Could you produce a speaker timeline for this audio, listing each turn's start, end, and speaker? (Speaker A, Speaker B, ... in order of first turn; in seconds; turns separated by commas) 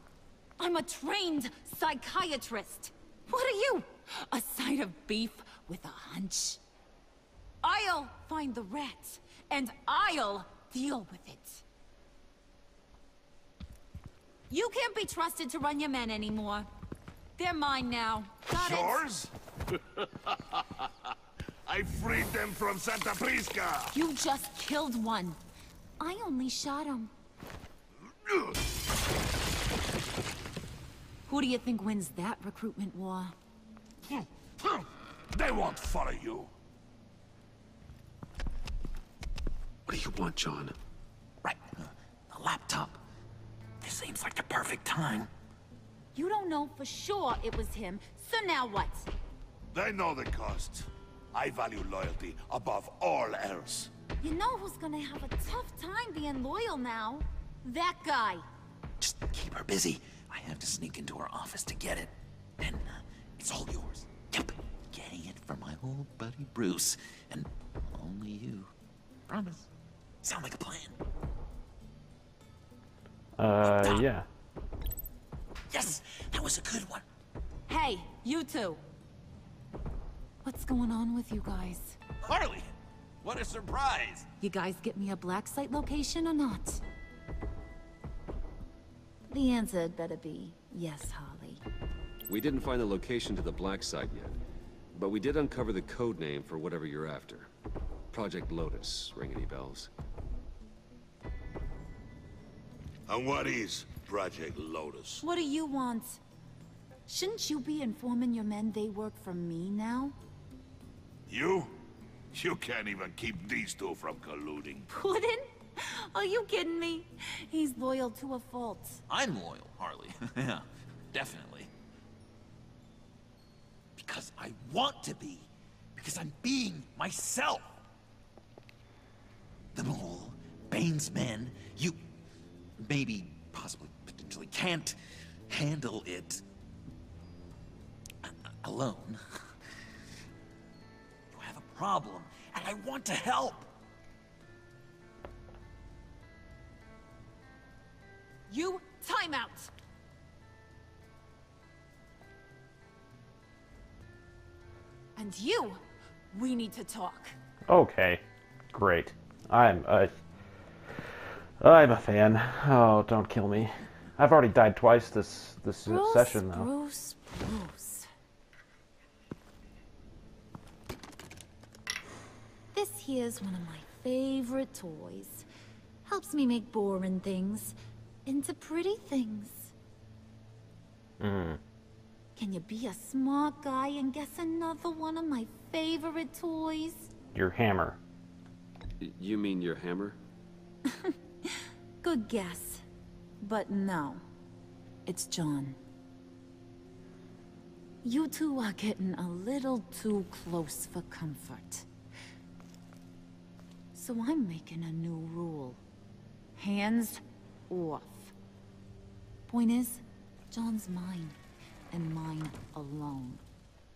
Speaker A: 0.6-6.6, Speaker A: 7.6-11.6, Speaker A: 14.5-16.7, Speaker A: 17.4-19.0, Speaker B: 18.5-20.9, Speaker B: 21.6-23.9, Speaker A: 23.9-25.4, Speaker A: 26.0-27.1, Speaker A: 31.3-33.3, Speaker B: 34.6-36.5, Speaker C: 39.9-40.7, Speaker D: 41.4-43.0, Speaker D: 43.8-45.3, Speaker A: 46.1-49.1, Speaker B: 49.7-53.9, Speaker A: 54.2-58.4, Speaker D: 59.0-68.7, Speaker D: 69.3-69.7, Speaker D: 70.2-71.0, Speaker E: 73.4-74.2, Speaker D: 73.6-74.0, Speaker D: 75.7-77.0, Speaker A: 77.7-78.8, Speaker A: 80.4-82.0, Speaker B: 82.2-82.7, Speaker B: 83.2-84.3, Speaker A: 84.4-86.8, Speaker A: 89.3-91.6, Speaker C: 92.2-94.4, Speaker C: 94.9-97.5, Speaker C: 98.1-99.9, Speaker B: 103.1-105.2, Speaker A: 105.2-106.2, Speaker A: 107.1-110.1, Speaker B: 111.3-111.7, Speaker B: 112.3-114.9, Speaker A: 114.9-119.0, Speaker D: 119.1-121.7, Speaker D: 124.0-127.8, Speaker D: 129.7-132.0, Speaker D: 132.8-134.9, Speaker D: 135.5-136.4, Speaker D: 138.2-139.2, Speaker D: 141.3-143.7, Speaker A: 148.5-149.7, Speaker A: 155.2-155.8, Speaker A: 156.3-157.3, Speaker E: 157.7-160.1, Speaker E: 161.6-166.7, Speaker A: 165.8-168.1, Speaker A: 172.7-175.4, Speaker A: 176.0-179.7, Speaker E: 181.2-181.6, Speaker A: 182.3-187.1, Speaker E: 187.3-188.0, Speaker C: 189.0-190.2, Speaker A: 192.0-192.8, Speaker A: 193.4-194.2, Speaker A: 195.1-195.8, Speaker A: 198.0-201.9, Speaker A: 203.9-205.8, Speaker A: 206.6-208.3, Speaker A: 209.5-211.4, Speaker A: 211.9-213.4